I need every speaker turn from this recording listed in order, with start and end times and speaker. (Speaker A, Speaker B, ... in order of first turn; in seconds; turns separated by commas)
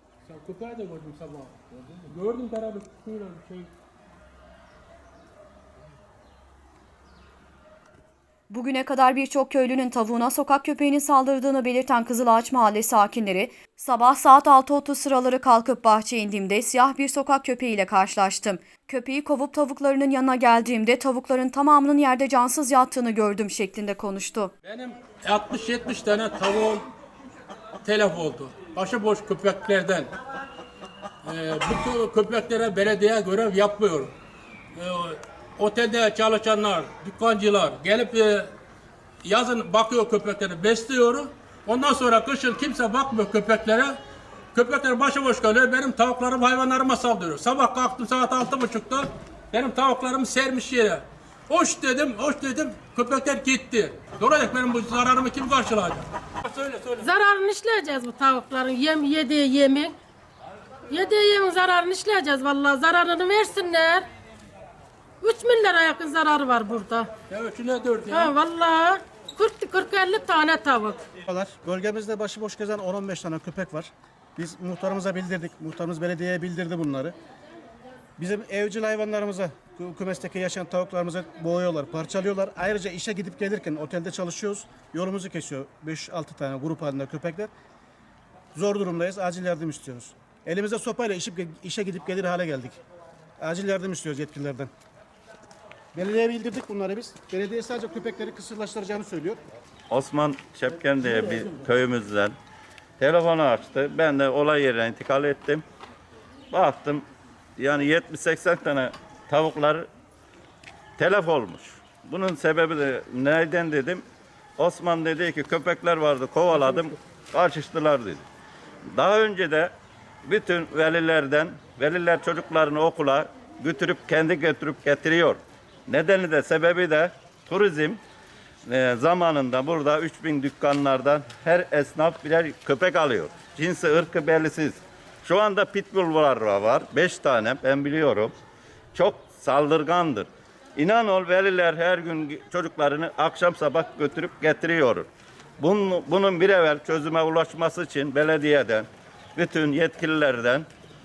Speaker A: 0.2-3.7, Speaker B: 8.5-24.5, Speaker A: 24.6-26.9, Speaker A: 27.8-30.1, Speaker A: 31.2-34.1, Speaker A: 34.8-38.5, Speaker A: 39.2-44.0, Speaker A: 44.5-57.1, Speaker C: 57.0-60.0, Speaker C: 60.9-64.1, Speaker C: 65.2-67.1, Speaker A: 67.3-68.3, Speaker C: 68.1-71.0, Speaker D: 71.2-77.2, Speaker D: 78.2-87.5, Speaker D: 88.5-92.8, Speaker D: 93.4-94.7, Speaker D: 95.9-99.4, Speaker E: 99.9-102.3, Speaker E: 103.0-105.6, Speaker E: 106.5-107.0, Speaker E: 107.6-109.9, Speaker E: 111.0-114.0, Speaker E: 114.6-118.2, Speaker E: 118.9-119.7, Speaker E: 120.2-128.0, Speaker E: 128.7-138.3, Speaker E: 138.9-145.1, Speaker E: 145.6-150.7